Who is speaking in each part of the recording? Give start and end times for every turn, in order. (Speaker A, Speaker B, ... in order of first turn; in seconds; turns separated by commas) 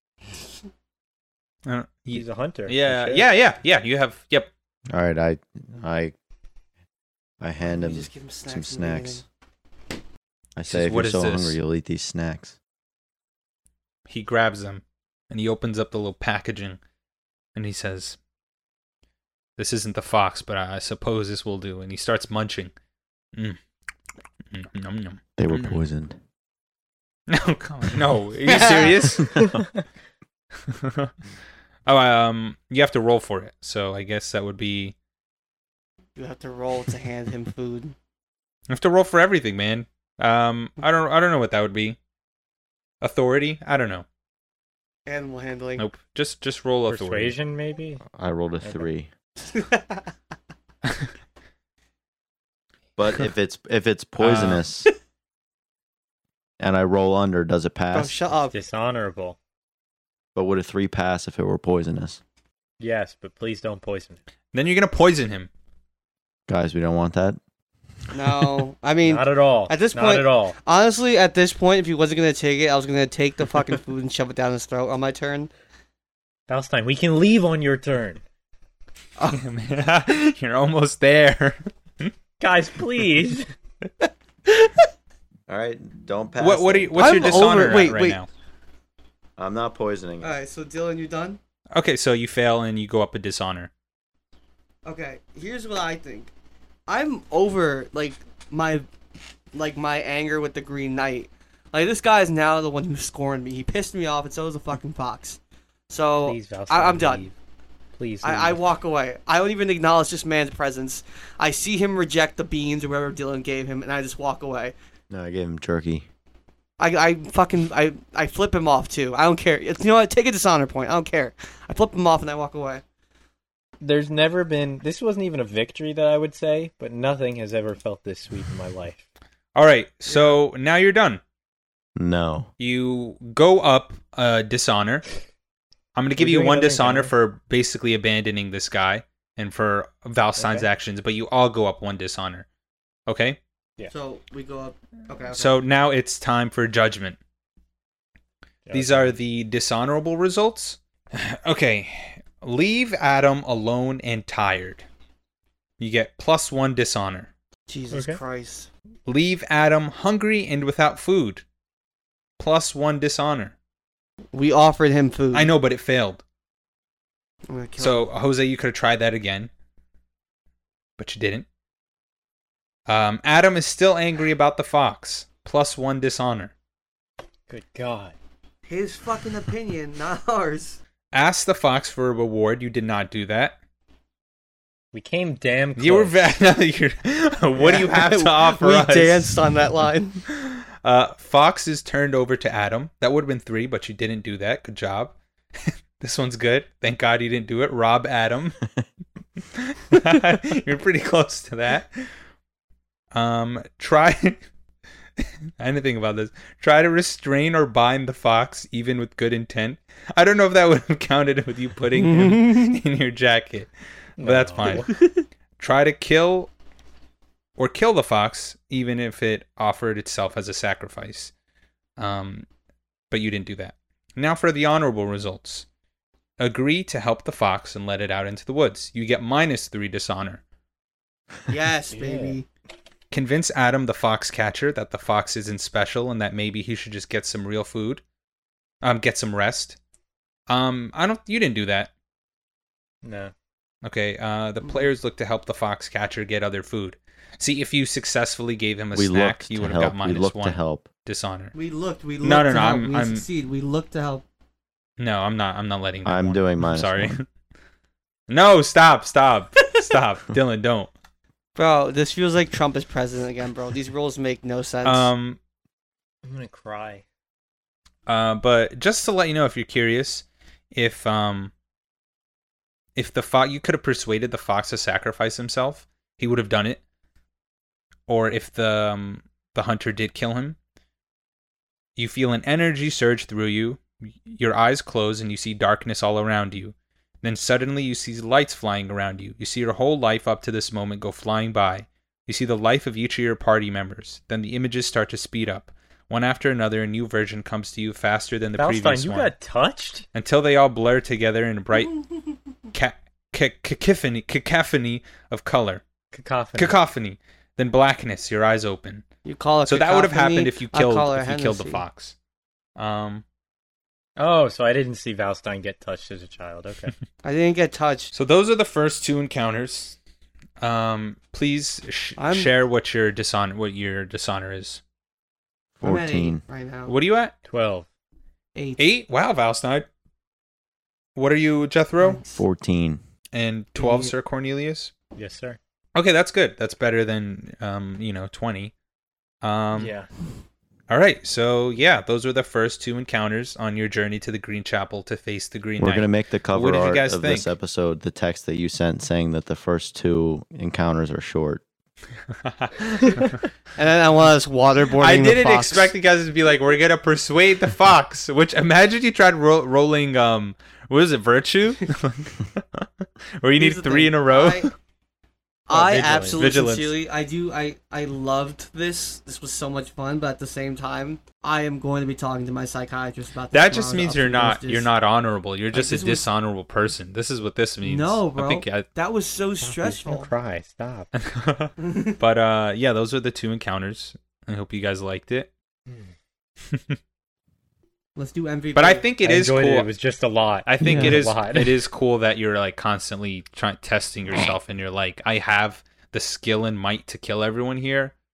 Speaker A: 1.6-4.5, Speaker B: 2.1-3.3, Speaker C: 4.9-6.2, Speaker C: 7.4-9.2, Speaker D: 7.6-9.2, Speaker C: 10.6-12.6, Speaker A: 10.7-11.6, Speaker A: 14.1-16.8, Speaker A: 17.6-18.2, Speaker A: 19.6-22.7, Speaker A: 23.3-23.6, Speaker A: 24.5-25.8, Speaker C: 25.4-26.2, Speaker A: 27.3-29.5, Speaker A: 30.6-31.1, Speaker A: 31.9-35.0, Speaker D: 36.2-38.0, Speaker A: 38.7-42.0, Speaker A: 43.0-44.0, Speaker D: 45.1-45.9, Speaker A: 45.8-47.4, Speaker B: 46.9-48.0, Speaker C: 48.0-49.1, Speaker D: 49.5-50.0, Speaker C: 53.0-54.9, Speaker A: 54.2-54.7, Speaker C: 56.6-58.1, Speaker D: 57.9-58.6, Speaker B: 58.5-59.4, Speaker C: 60.4-62.2, Speaker B: 62.8-64.2, Speaker A: 64.5-65.5, Speaker C: 66.5-67.4, Speaker D: 68.1-75.5, Speaker B: 69.0-70.6, Speaker B: 76.5-78.2, Speaker A: 79.3-82.1, Speaker B: 82.4-83.5, Speaker C: 85.5-87.7, Speaker A: 86.4-88.3, Speaker D: 87.0-88.2, Speaker C: 89.4-90.3, Speaker D: 90.2-91.4, Speaker A: 91.7-93.7, Speaker D: 94.9-96.3, Speaker D: 96.9-98.9, Speaker D: 99.5-107.3, Speaker B: 106.3-107.3, Speaker B: 107.9-108.6, Speaker D: 108.2-114.7, Speaker C: 115.1-116.1, Speaker D: 116.8-122.8, Speaker B: 123.8-129.1, Speaker A: 129.6-131.2, Speaker D: 130.1-130.4, Speaker C: 132.0-132.5, Speaker A: 132.6-135.1, Speaker A: 135.9-142.5, Speaker B: 136.2-137.1, Speaker B: 140.4-140.7, Speaker A: 143.1-143.4, Speaker D: 143.9-145.6, Speaker A: 145.3-147.2, Speaker B: 148.7-149.2, Speaker A: 148.7-154.9, Speaker A: 155.8-157.3, Speaker D: 157.7-158.7, Speaker B: 157.9-158.2, Speaker A: 159.1-161.4, Speaker A: 162.4-163.6, Speaker D: 164.3-165.5, Speaker A: 165.3-166.2, Speaker D: 167.5-168.1, Speaker A: 167.8-169.5, Speaker A: 171.0-171.5, Speaker A: 172.9-176.5, Speaker B: 177.5-178.2, Speaker D: 178.7-180.8, Speaker A: 181.1-183.6, Speaker B: 184.9-186.1, Speaker A: 185.8-189.4, Speaker D: 187.6-190.2, Speaker A: 190.3-198.6, Speaker A: 199.6-202.1, Speaker A: 203.1-204.4, Speaker A: 205.2-215.0, Speaker D: 211.9-212.8, Speaker B: 214.2-214.9, Speaker A: 215.6-216.5, Speaker A: 217.6-221.3, Speaker A: 222.0-222.5, Speaker A: 223.1-225.7, Speaker A: 226.4-230.4, Speaker D: 231.5-232.5, Speaker B: 231.9-232.4, Speaker A: 233.1-238.0, Speaker A: 238.8-239.8, Speaker A: 240.5-241.9, Speaker B: 243.0-243.3, Speaker A: 243.8-251.5, Speaker C: 248.9-250.9, Speaker D: 251.5-254.2, Speaker A: 252.2-253.2, Speaker A: 255.0-257.3, Speaker C: 256.1-257.2, Speaker A: 258.3-260.9, Speaker D: 261.6-265.1, Speaker A: 264.9-265.4, Speaker B: 266.2-267.0, Speaker A: 268.1-271.5, Speaker A: 273.0-276.8, Speaker A: 278.1-280.6, Speaker A: 282.0-299.3, Speaker B: 298.6-300.1, Speaker A: 300.1-302.0, Speaker A: 302.7-305.8, Speaker B: 306.1-306.8, Speaker A: 306.6-309.0, Speaker D: 309.2-311.8, Speaker A: 309.7-312.1, Speaker A: 312.8-313.2, Speaker B: 314.2-316.9, Speaker D: 317.2-318.1, Speaker A: 318.1-320.0, Speaker A: 320.6-324.8, Speaker D: 322.2-322.5, Speaker C: 325.8-326.4, Speaker D: 325.8-326.9, Speaker A: 326.9-327.3, Speaker B: 327.5-327.9, Speaker D: 328.6-328.9, Speaker A: 328.8-329.9, Speaker A: 331.2-332.2, Speaker D: 332.0-332.4, Speaker C: 332.4-333.0, Speaker A: 333.3-334.9, Speaker D: 333.8-334.1, Speaker B: 335.1-335.6, Speaker A: 335.9-338.7, Speaker A: 339.4-339.9, Speaker B: 339.8-340.1, Speaker A: 340.9-347.5, Speaker C: 345.8-351.6, Speaker A: 352.4-353.4, Speaker D: 353.8-355.9, Speaker A: 355.0-362.9, Speaker A: 363.4-364.7, Speaker D: 363.6-364.7, Speaker D: 365.7-374.9, Speaker B: 365.7-366.5, Speaker A: 366.3-367.0, Speaker A: 373.5-378.9, Speaker D: 375.7-376.3, Speaker D: 377.8-380.3, Speaker B: 379.6-381.1, Speaker A: 381.1-385.5, Speaker D: 381.8-382.2, Speaker B: 385.9-386.1, Speaker A: 386.7-387.0, Speaker D: 388.2-389.1, Speaker A: 388.8-389.9, Speaker B: 389.2-391.8, Speaker A: 390.7-398.1, Speaker D: 390.8-391.2